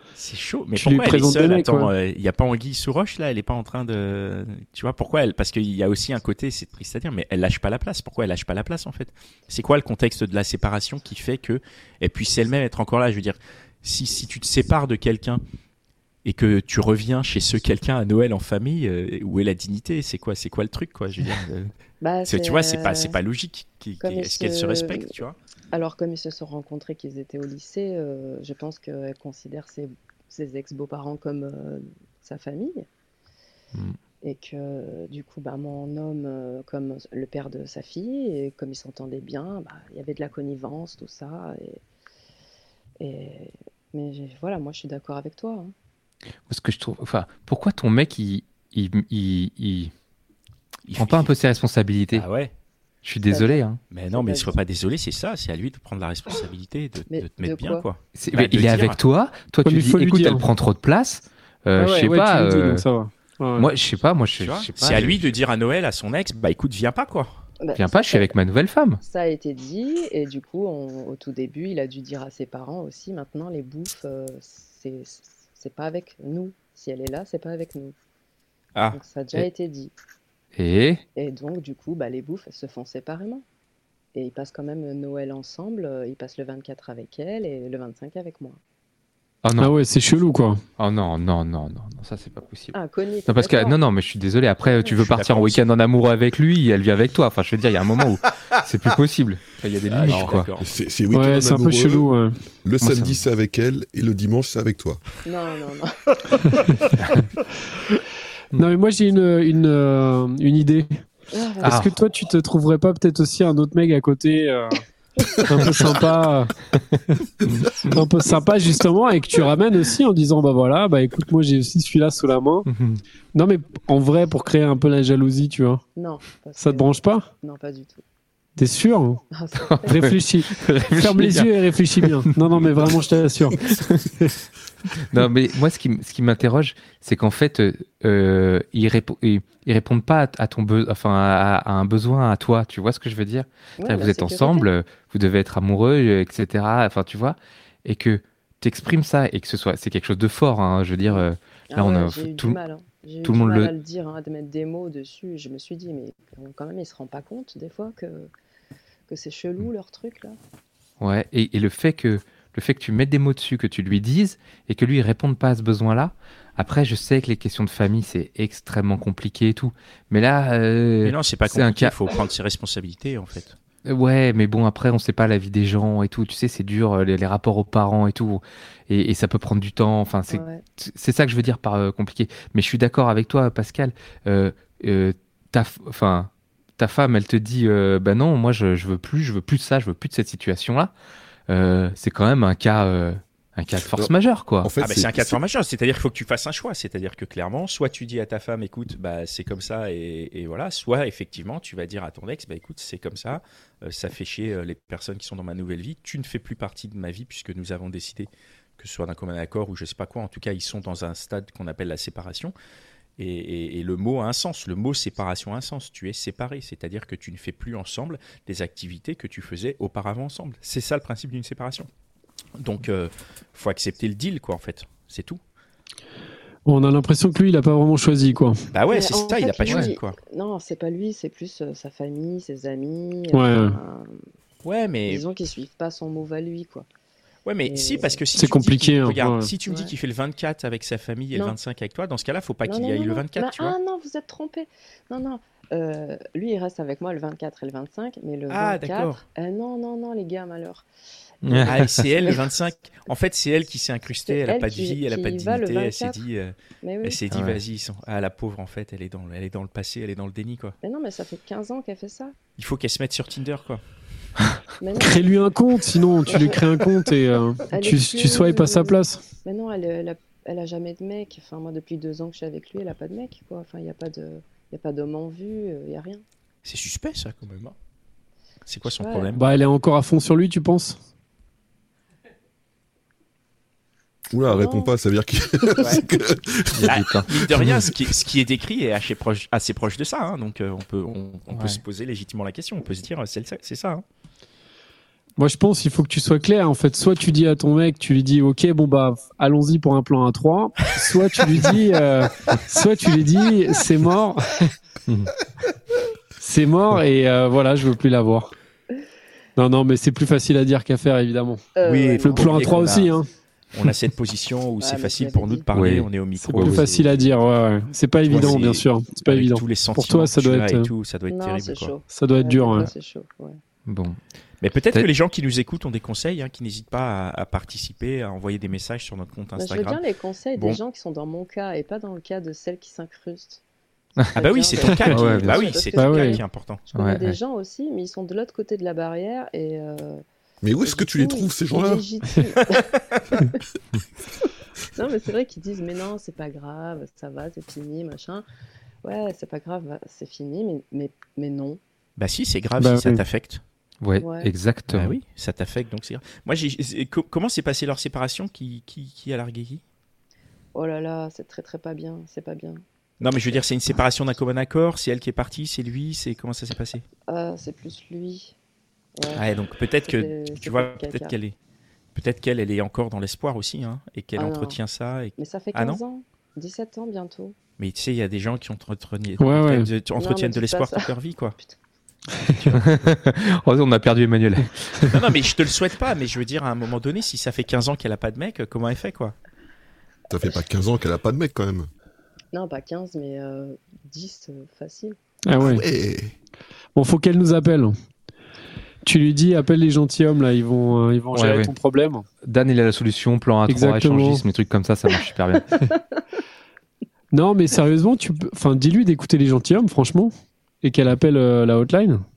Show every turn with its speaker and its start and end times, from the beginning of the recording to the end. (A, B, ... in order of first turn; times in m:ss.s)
0:00.2-0:15.4 A
0:00.8-0:01.9 B
0:16.2-0:21.7 A
0:22.0-0:23.2 C
0:22.3-0:25.4 A
0:24.0-0:25.1 C
0:25.7-0:32.9 C
0:34.2-0:41.8 C
0:43.0-0:45.7 C
0:46.5-0:49.9 D
0:50.9-0:51.3 A
0:51.0-0:52.3 D
0:52.1-0:52.5 A
0:53.0-0:53.8 D
0:53.3-0:54.6 C
0:53.9-0:59.0 A
0:57.1-0:57.9 C
0:58.2-1:02.8 D
0:59.6-1:00.5 B
1:01.8-1:03.7 B
1:03.6-1:05.1 D
1:04.4-1:07.4 A
1:07.6-1:08.3 C
1:07.8-1:09.0 D
1:09.0-1:17.9 C
1:18.8-1:19.0 A
1:18.9-1:19.9 C
1:20.6-1:21.0 D
1:21.2-1:23.4 C
1:24.1-1:28.6 C
1:29.4-1:29.7 D
1:29.6-1:30.6 B
1:30.8-1:40.5 D
1:32.7-1:33.8 C
1:34.7-1:34.9 C
1:35.0-1:35.6 A
1:39.9-1:40.7 A
1:40.1-1:42.1 E
1:41.1-1:42.4 B
1:42.6-1:45.0 E
1:42.8-1:43.2 D
1:45.2-1:46.0 C
1:48.6-1:51.0 B
1:51.3-1:51.8 C
1:51.6-1:54.8 B
1:51.6-1:51.9 D
1:55.4-1:56.6 B
1:57.8-2:02.7 B
2:02.7-2:03.0 D
2:03.3-2:05.8 B
2:06.0-2:08.0 C
2:06.6-2:07.3 B
2:08.6-2:09.2 B
2:09.3-2:10.2 C
2:09.6-2:12.4 D
2:09.9-2:14.3 B
2:13.6-2:14.0 D
2:15.0-2:32.6 D
2:23.8-2:24.7 C
2:31.1-2:38.3 C
2:33.2-2:33.7 D
2:39.1-2:40.4 C
2:41.0-2:52.0 D
2:51.0-2:53.6 A
2:53.8-3:10.9 D
3:00.3-3:00.6 C
3:11.5-3:14.7 D
3:13.9-3:15.4 E
3:14.8-3:32.5 A
3:33.2-3:41.9 A
3:42.6-3:45.4 A
3:46.7-3:48.6 B
3:48.7-3:50.2 A
3:48.9-3:54.2 C
3:53.3-3:53.8 B
3:54.6-3:55.2 A
3:55.1-3:56.9 C
3:57.4-4:03.8 A
3:57.6-3:58.2 C
3:58.4-3:59.5 B
3:59.7-3:59.9 C
4:02.6-4:10.9 C
4:08.5-4:09.2 A
4:11.4-4:11.9 D
4:11.5-4:12.4 C
4:11.6-4:20.8 A
4:14.3-4:16.2 C
4:16.8-4:17.2 C
4:17.3-4:17.6 D
4:20.8-4:22.4 C
4:22.6-4:23.8 A
4:24.8-4:25.5 C
4:25.0-4:29.2 B
4:26.2-4:26.8 C
4:27.7-4:36.2 C
4:36.6-4:37.8 A
4:38.7-4:39.4 A
4:38.9-4:39.3 C
4:39.4-4:41.0 B
4:44.3-4:48.0 E
4:44.5-4:44.9 C
4:45.8-4:46.0 A
4:46.7-4:47.8 D
4:46.9-4:54.0 A
4:51.5-4:51.8 D
4:55.4-5:04.7 B
5:05.1-5:05.3 D
5:06.4-5:08.5 B
5:09.6-5:11.7 B
5:11.8-5:13.0 C
5:11.8-5:13.2 A
5:12.2-5:13.3 B
5:13.7-5:17.4 A
5:14.8-5:15.7 C
5:15.7-5:16.1 D
5:16.4-5:20.9 B
5:18.2-5:22.0 A
5:21.3-5:23.6 C
5:22.1-5:22.9 B
5:23.9-5:24.2 D
5:24.6-5:30.0 A
5:29.6-5:33.6 C
5:30.6-5:30.8 A
5:34.3-5:40.2 C
5:34.3-5:36.8 A
5:35.1-5:35.8 D
5:36.0-5:36.4 B
5:36.9-5:37.4 D
5:40.6-5:42.0 E
5:40.8-5:43.6 C
5:45.0-5:48.4 C
5:49.0-5:51.8 C
5:52.2-5:53.6 A
5:52.8-5:53.2 B
5:54.0-5:55.2 D
5:54.2-5:54.5 C
5:54.9-5:59.8 A
6:00.7-6:03.6 C
6:03.2-6:07.0 A
6:07.3-6:08.6 C
6:09.2-6:09.5 C
6:09.3-6:11.6 A
6:10.0-6:11.4 C
6:12.2-6:16.0 A
6:14.4-6:14.8 C
6:15.4-6:17.6 C
6:17.8-6:21.6 A
6:19.4-6:19.9 B
6:20.2-6:21.8 C
6:22.4-6:22.6 B
6:22.7-6:25.2 D
6:25.1-6:29.4 A
6:30.3-6:31.9 E
6:32.5-6:35.2 C
6:35.5-6:35.8 B
6:35.6-6:36.3 E
6:37.0-6:37.9 B
6:39.0-6:42.2 B
6:41.3-6:41.7 D
6:42.4-6:45.8 D
6:43.7-6:44.4 B
6:45.8-6:46.2 C
6:47.3-6:52.2 B